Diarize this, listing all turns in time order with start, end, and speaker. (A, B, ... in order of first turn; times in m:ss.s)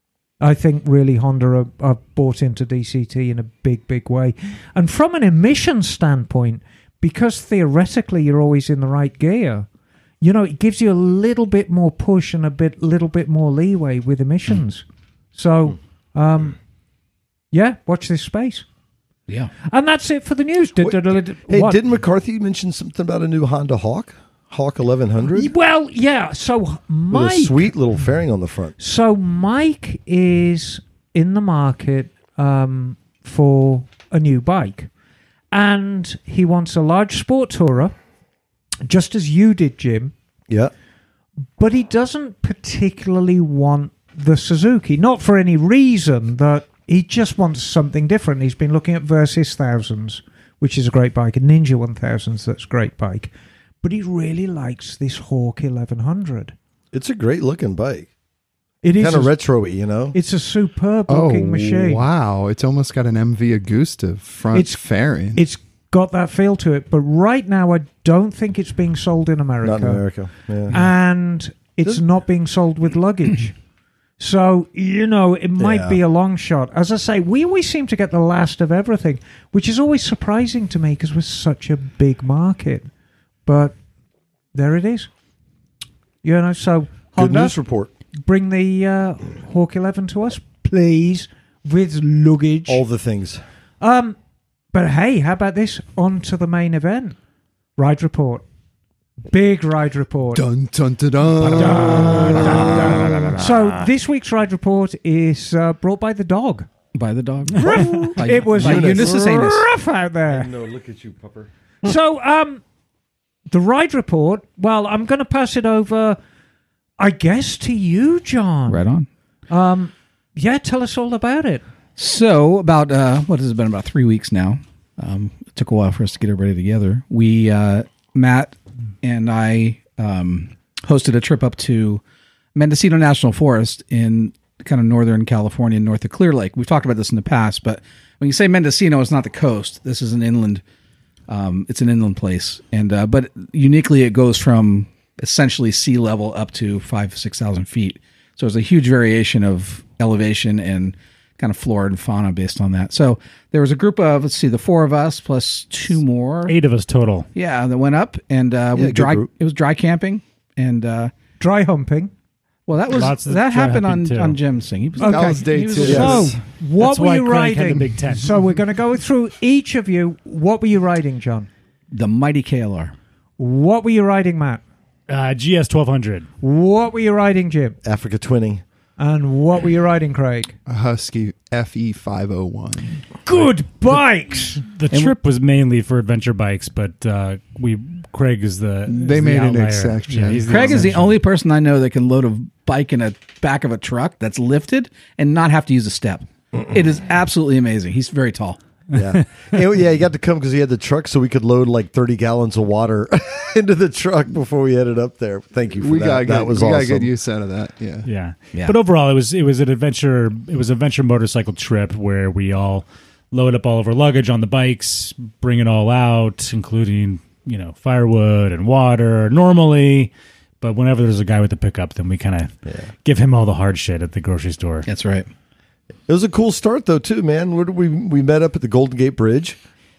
0:00.4-0:09.7 A
0:10.2-0:16.6 A
0:17.5-0:18.6 A
0:19.6-0:21.8 A
0:20.8-0:25.5 B
0:25.3-0:27.7 A
0:27.1-0:28.8 B
0:28.8-0:34.9 A
0:35.5-0:37.9 A
0:38.9-0:40.1 A
0:41.6-0:53.3 A
0:53.8-0:56.6 A
0:56.9-0:58.1 B
0:58.8-0:59.4 A
0:59.0-1:00.2 B
1:00.1-1:02.0 A
1:01.1-1:05.4 C
1:04.5-1:10.0 A
1:09.6-1:10.8 B
1:10.7-1:13.6 A
1:14.2-1:22.9 A
1:15.6-1:16.0 B
1:23.5-1:23.8 A
1:24.5-1:25.1 A
1:26.2-1:27.6 A
1:27.2-1:27.9 B
1:28.2-1:32.8 A
1:32.7-1:33.4 B
1:33.8-1:34.2 A
1:34.7-1:37.2 A
1:37.8-1:38.4 A
1:39.3-1:40.4 A
1:40.3-1:43.3 C
1:41.4-1:46.7 A
1:41.8-1:42.9 B
1:46.9-1:49.6 D
1:47.6-1:50.5 A
1:48.6-1:49.6 B
1:50.3-1:51.5 B
1:51.8-1:52.6 A
1:53.5-1:56.2 A
1:57.0-1:58.8 A
1:58.7-1:59.1 D
1:59.5-2:01.6 A
2:02.0-2:12.0 D
2:12.6-2:20.6 D
2:21.3-2:36.6 D
2:36.5-2:37.3 E
2:37.4-2:41.1 D
2:38.8-2:39.3 B
2:41.4-2:42.1 A
2:42.7-2:46.3 D
2:42.9-2:44.4 E
2:45.0-2:46.4 C
2:45.0-2:51.5 A
2:45.9-2:46.2 B
2:46.8-2:48.4 E
2:51.9-2:52.9 D
2:53.4-2:54.6 A
2:55.1-2:56.3 E
2:56.4-2:57.8 A
2:57.8-2:58.6 B
2:59.0-3:00.6 A
3:00.7-3:03.0 C
3:03.2-3:04.6 A
3:04.6-3:11.1 E
3:08.9-3:11.1 C
3:10.5-3:18.6 D
3:18.9-3:27.1 B
3:25.8-3:28.1 C
3:28.0-3:44.9 E
3:44.9-3:45.3 D
3:46.1-3:49.6 B